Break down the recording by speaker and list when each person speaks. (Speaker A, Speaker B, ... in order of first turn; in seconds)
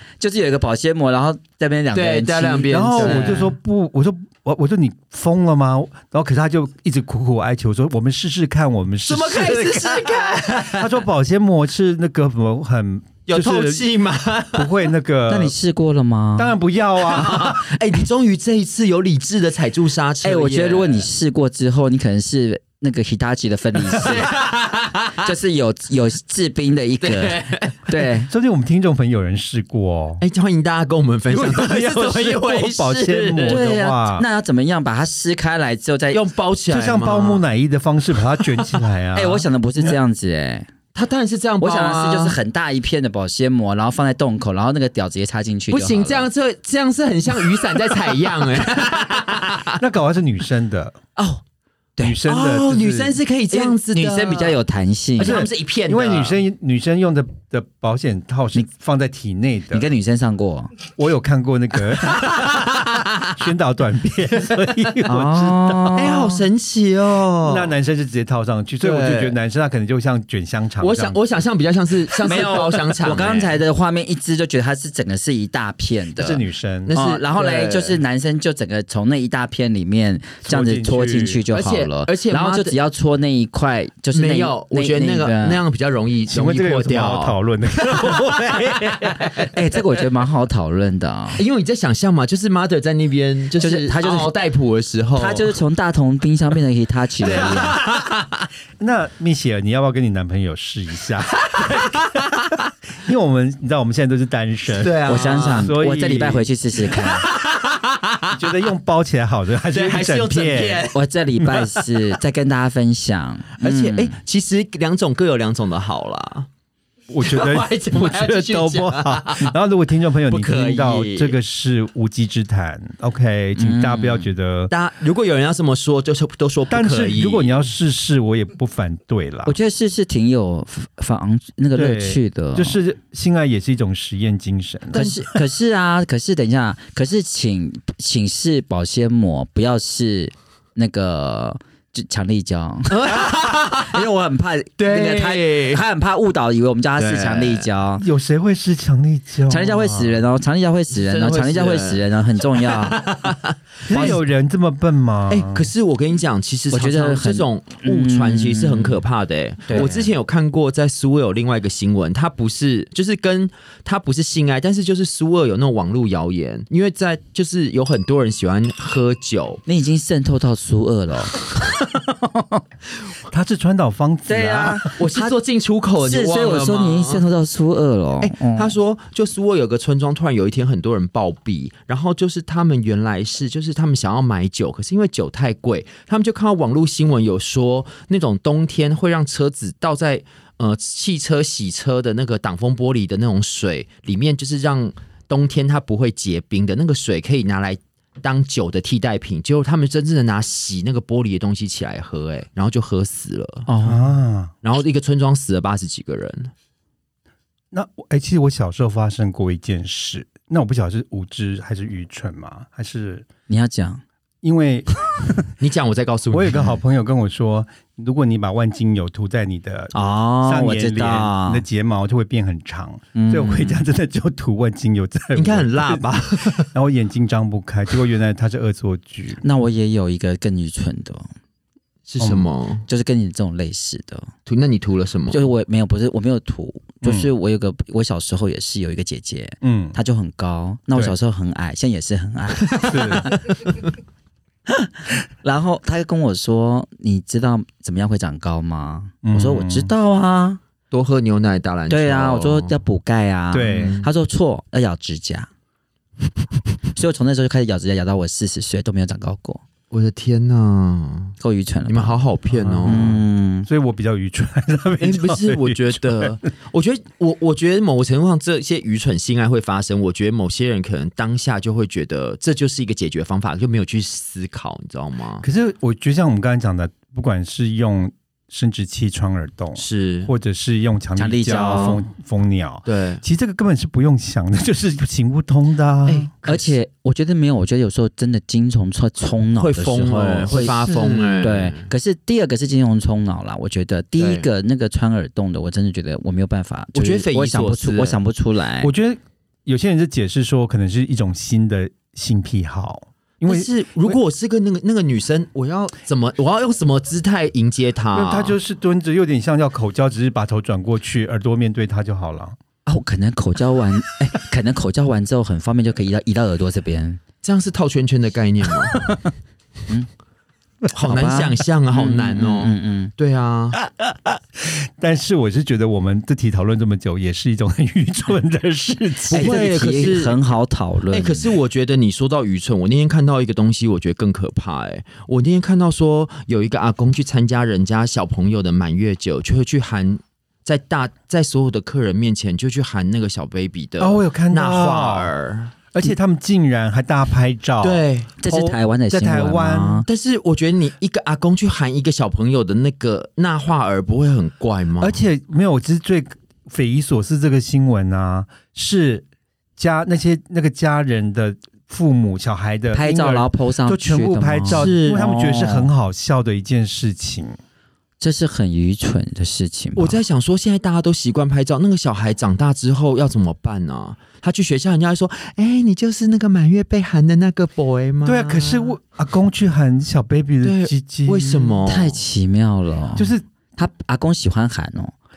Speaker A: 0.2-3.4, 15.3-16.5, 20.2-24.3, 25.2-28.3, 33.5-36.2, 39.1-40.7, 41.6-46.3, 51.2-51.4, 53.5-55.4, 59.7-60.7, 65.0-66.4, 72.2-76.4, 76.9-85.6, 89.5-91.4, 93.6-94.3, 95.2-97.8, 105.1-107.3, 110.9-114.2, 123.6-124.3, 129.5-132.8, 134.9-148.0, 149.5-153.0, 153.9-154.2, 156.7-159.0, 159.7-160.1, 169.7-172.6, 174.3-175.3, 176.0-178.8, 203.7-204.0, 213.5-214.0, 219.9-221.6, 223.2-223.8, 229.4-231.3, 232.9-234.3, 235.3-243.4, 245.4-250.6, 251.9-255.5, 256.9-259.6, 261.4-262.2, 262.9-263.7, 281.2-282.0, 286.4-298.9, 312.9-317.2, 321.0-323.1, 329.3-331.5, 348.4-350.1, 362.9-365.9, 368.2-370.2, 381.9-385.1
Speaker B: 1.9-3.5, 9.1-11.0, 13.3-14.8, 17.0-21.1, 23.9-25.3, 27.0-27.9, 30.2-33.7, 36.1-37.5, 40.9-42.4, 45.7-49.8, 52.2-54.6, 55.2-56.4, 62.0-63.3, 66.0-67.8, 68.8-69.3, 70.8-73.5, 76.9-78.0, 81.5-82.8, 84.1-89.5, 91.4-95.5, 97.2-98.5, 101.4-102.6, 104.7-105.7, 106.9-108.5, 109.7-112.0, 113.6-116.5, 117.2-119.5, 120.3-121.4, 124.7-127.5, 134.9-135.3, 142.9-144.0, 144.8-145.8, 147.0-147.7, 150.9-154.2, 155.3-169.6, 175.0-177.2, 178.2-203.7, 204.6-206.5, 215.6-216.8, 225.3-226.7, 232.1-232.9, 234.5-235.4, 242.7-243.0, 250.9-252.8, 253.7-254.1, 259.9-261.4, 261.9-263.1, 265.0-275.5, 279.8-280.3, 282.9-283.2, 286.1-286.7, 289.6-291.9, 294.2-294.5, 296.9-298.2, 303.4-308.6, 317.4-319.1, 320.9-323.8, 329.3-330.4, 331.1-345.8, 347.8-348.3, 350.1-355.2, 364.7-365.3, 370.0-379.0, 380.6-382.2
Speaker C: 2.7-13.9, 14.5-15.6, 16.4-17.7, 28.2-30.2, 31.3-34.3, 36.7-39.9, 49.7-51.0, 52.0-53.2, 55.2-59.9, 60.9-66.3, 67.5-71.2, 76.2-76.9, 80.5-81.4, 86.3-89.3, 98.8-102.0, 103.0-106.5, 108.3-110.9, 117.1-124.7, 126.7-129.6, 131.8-135.1, 148.0-150.2, 153.9-155.7, 173.3-174.9, 203.8-204.5, 207.7-213.3, 214.4-214.9, 216.3-229.4, 232.2-232.5, 237.0-237.3, 239.6-240.0, 242.9-243.3, 249.2-249.9, 253.5-254.0, 262.5-266.4, 275.4-286.3, 290.5-291.6, 298.8-304.2, 308.1-312.6, 324.0-329.6, 344.0-345.3, 345.9-350.1, 355.0-359.3, 359.8-367.6, 378.2-381.8, 383.1-383.4